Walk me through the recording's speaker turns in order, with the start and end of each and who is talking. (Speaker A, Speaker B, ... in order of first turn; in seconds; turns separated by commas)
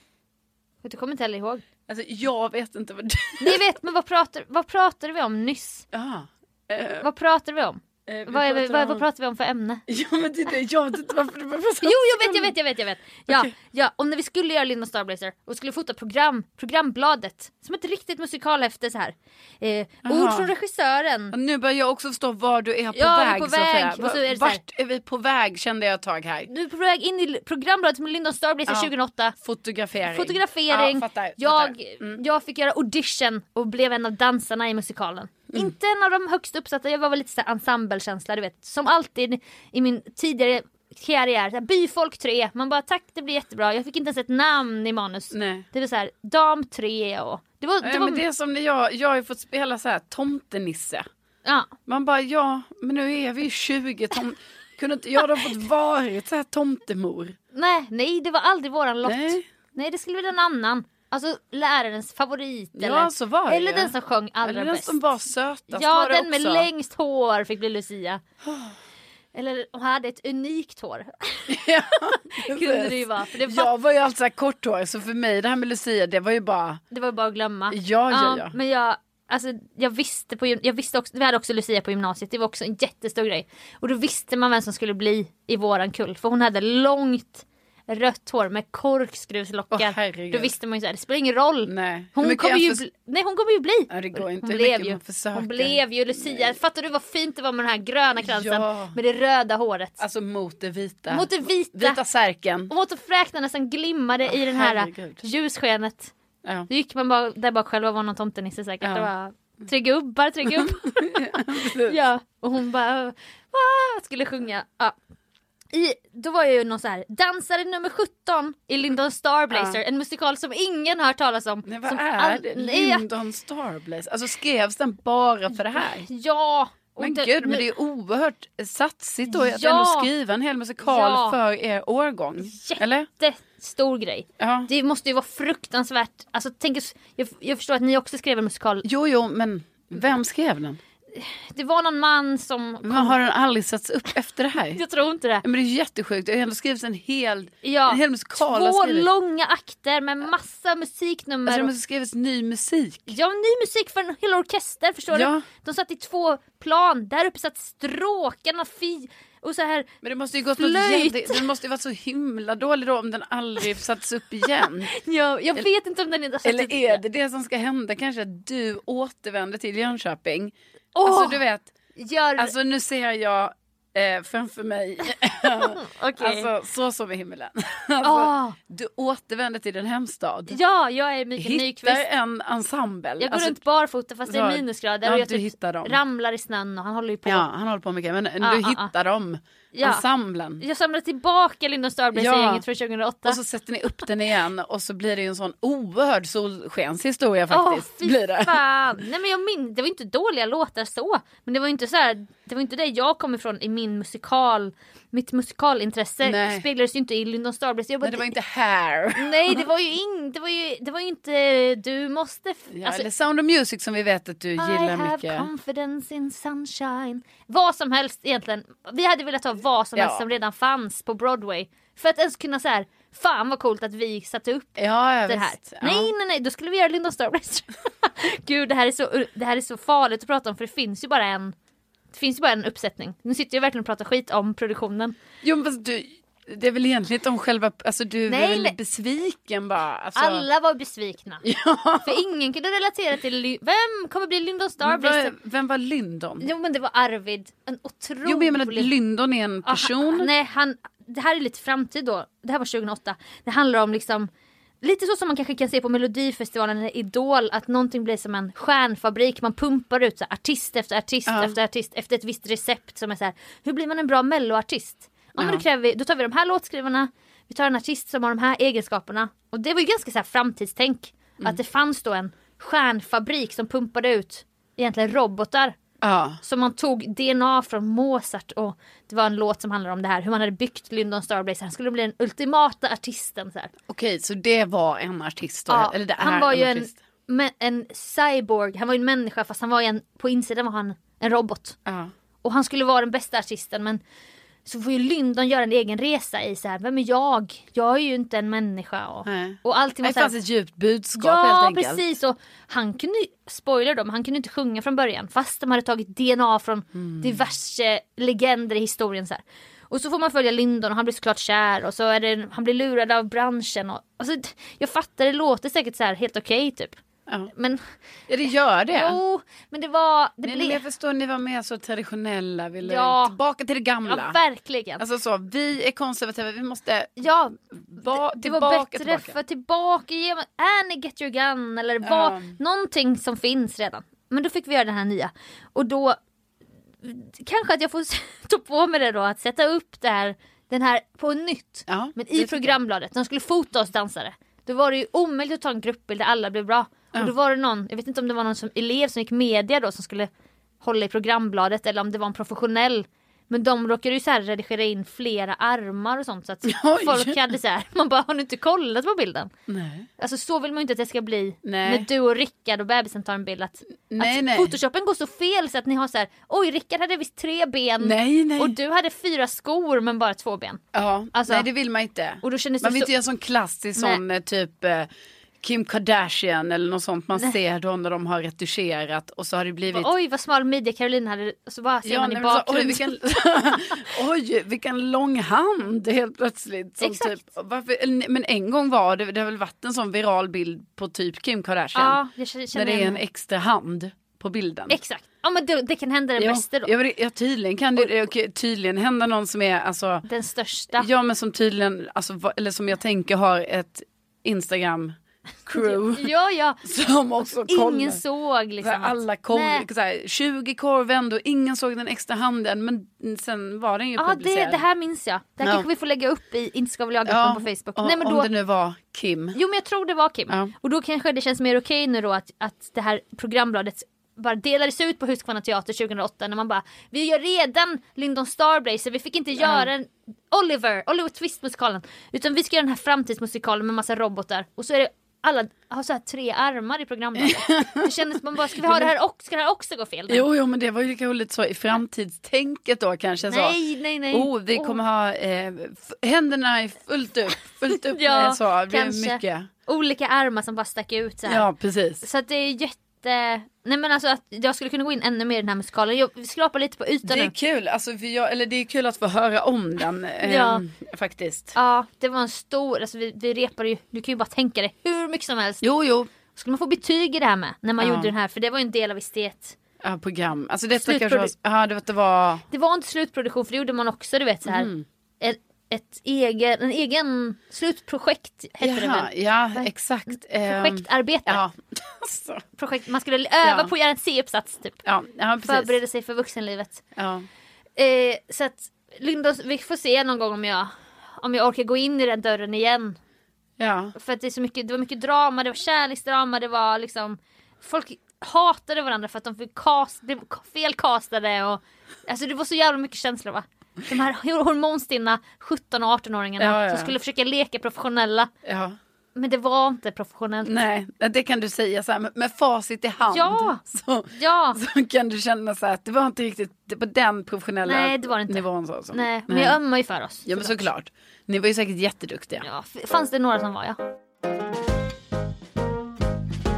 Speaker A: 0.8-1.6, Speaker B: 1.9-3.6, Speaker A: 3.4-5.9, Speaker B: 5.9-7.1, Speaker A: 7.0-9.8, Speaker B: 8.1-9.1, Speaker B: 9.9-12.5, Speaker A: 11.8-21.4, Speaker B: 20.1-20.5, Speaker B: 21.3-26.5, Speaker A: 22.9-24.6, Speaker A: 26.5-29.4, Speaker B: 28.7-32.2, Speaker A: 30.1-48.2, Speaker B: 45.3-45.7, Speaker B: 47.8-51.1, Speaker A: 51.5-51.7, Speaker B: 51.9-57.4, Speaker A: 57.5-65.0, Speaker B: 59.0-59.4, Speaker B: 62.8-66.7, Speaker A: 65.7-68.2, Speaker B: 68.4-68.7, Speaker A: 69.3-71.6, Speaker B: 71.5-76.8, Speaker A: 72.1-73.7, Speaker A: 76.9-100.0, Speaker B: 77.7-78.5, Speaker B: 89.7-90.5, Speaker B: 91.7-92.8, Speaker B: 93.9-96.6, Speaker B: 98.2-99.0, Speaker B: 100.0-102.7, Speaker A: 101.1-102.0, Speaker A: 102.7-106.1, Speaker B: 104.2-105.2, Speaker B: 106.4-106.7, Speaker A: 106.7-115.0, Speaker B: 108.8-109.1, Speaker B: 110.5-112.0, Speaker A: 115.7-123.1, Speaker B: 119.5-119.8, Speaker B: 121.7-126.1, Speaker A: 125.5-127.7, Speaker B: 127.0-133.1, Speaker A: 129.3-130.1, Speaker A: 130.8-131.4, Speaker A: 132.4-138.8, Speaker B: 134.4-134.7, Speaker B: 138.8-140.8, Speaker A: 141.1-143.2, Speaker B: 142.8-144.8, Speaker A: 144.8-145.4, Speaker B: 145.4-149.1, Speaker A: 147.6-151.7, Speaker B: 151.5-153.1, Speaker A: 153.1-159.9, Speaker B: 155.1-155.5, Speaker B: 160.0-164.9, Speaker A: 160.6-161.4, Speaker A: 164.9-167.0, Speaker B: 166.4-170.5, Speaker A: 170.9-171.4, Speaker B: 171.0-171.7, Speaker A: 172.0-172.5, Speaker B: 172.4-180.6, Speaker A: 175.5-176.5, Speaker A: 178.0-178.6, Speaker A: 180.5-182.0, Speaker B: 181.4-183.6, Speaker A: 183.2-187.5, Speaker B: 184.3-186.0, Speaker B: 187.2-190.6, Speaker A: 188.4-188.9, Speaker A: 189.7-190.0, Speaker A: 190.6-193.4, Speaker B: 192.2-192.6, Speaker B: 193.2-198.6, Speaker A: 197.5-208.3, Speaker B: 206.2-206.7, Speaker B: 208.0-209.7, Speaker A: 209.2-213.1, Speaker B: 212.7-215.5, Speaker A: 214.6-231.5, Speaker B: 220.0-220.2, Speaker B: 224.8-226.1, Speaker A: 232.1-235.2, Speaker B: 235.4-240.5, Speaker A: 238.3-238.8, Speaker A: 240.2-241.4, Speaker B: 241.4-242.2, Speaker A: 242.0-245.3, Speaker B: 244.8-246.5, Speaker A: 246.4-248.9, Speaker B: 248.2-250.3, Speaker A: 249.7-254.3, Speaker A: 254.8-275.8, Speaker B: 261.3-261.6, Speaker B: 265.4-265.6, Speaker B: 276.0-276.4, Speaker A: 276.4-283.7, Speaker B: 283.9-287.0, Speaker A: 285.7-291.8, Speaker B: 291.9-292.1, Speaker A: 292.4-294.0, Speaker A: 294.7-300.3, Speaker B: 299.2-302.1, Speaker A: 301.2-317.0, Speaker B: 306.9-307.4, Speaker B: 317.3-317.5, Speaker A: 317.5-317.9, Speaker B: 318.3-319.2, Speaker A: 318.9-320.8, Speaker B: 320.4-324.4, Speaker A: 322.8-323.4, Speaker A: 324.1-325.0, Speaker B: 325.0-327.3, Speaker A: 327.2-336.2, Speaker B: 327.8-329.4, Speaker B: 332.0-332.6, Speaker A: 337.0-350.3, Speaker B: 341.9-342.8, Speaker A: 350.8-359.5, Speaker B: 356.6-357.4, Speaker B: 359.7-360.1, Speaker A: 360.2-370.8, Speaker B: 361.6-362.1, Speaker B: 364.1-364.7, Speaker B: 368.0-368.8, Speaker B: 370.9-375.1, Speaker A: 371.3-371.7, Speaker A: 372.4-373.1, Speaker B: 375.6-380.1, Speaker A: 379.9-384.0, Speaker B: 382.1-392.2, Speaker A: 387.0-387.4, Speaker A: 391.9-393.2, Speaker B: 392.7-395.0, Speaker A: 394.9-396.9, Speaker B: 396.4-400.3, Speaker A: 400.2-401.1, Speaker B: 400.9-406.3, Speaker A: 405.8-406.8, Speaker B: 406.8-408.2, Speaker A: 407.7-409.9, Speaker B: 408.8-414.8, Speaker A: 414.2-418.5, Speaker B: 415.6-415.9, Speaker B: 417.3-419.6, Speaker A: 419.6-440.4, Speaker B: 429.6-429.9, Speaker B: 437.4-439.1, Speaker B: 440.3-449.7, Speaker A: 443.5-445.0, Speaker A: 447.9-451.7, Speaker B: 451.5-452.2, Speaker A: 452.2-457.5, Speaker B: 457.2-461.8, Speaker A: 460.4-460.8, Speaker A: 461.8-465.8, Speaker B: 465.8-466.3, Speaker A: 466.5-469.8, Speaker B: 468.0-468.3, Speaker B: 470.0-472.6, Speaker A: 471.0-471.5, Speaker A: 472.7-474.9, Speaker B: 474.7-475.0, Speaker A: 475.4-481.6, Speaker B: 478.8-482.6, Speaker A: 482.8-485.0, Speaker B: 483.6-483.9, Speaker B: 485.1-486.0, Speaker A: 485.6-487.0, Speaker B: 487.2-487.5, Speaker A: 488.0-493.2, Speaker B: 493.8-494.1, Speaker A: 494.2-508.5, Speaker B: 506.6-507.1, Speaker B: 508.6-509.0, Speaker A: 509.4-510.7, Speaker B: 510.6-519.8, Speaker A: 513.3-513.8, Speaker A: 514.3-514.8, Speaker A: 517.9-520.9, Speaker B: 520.5-522.7, Speaker A: 522.6-524.0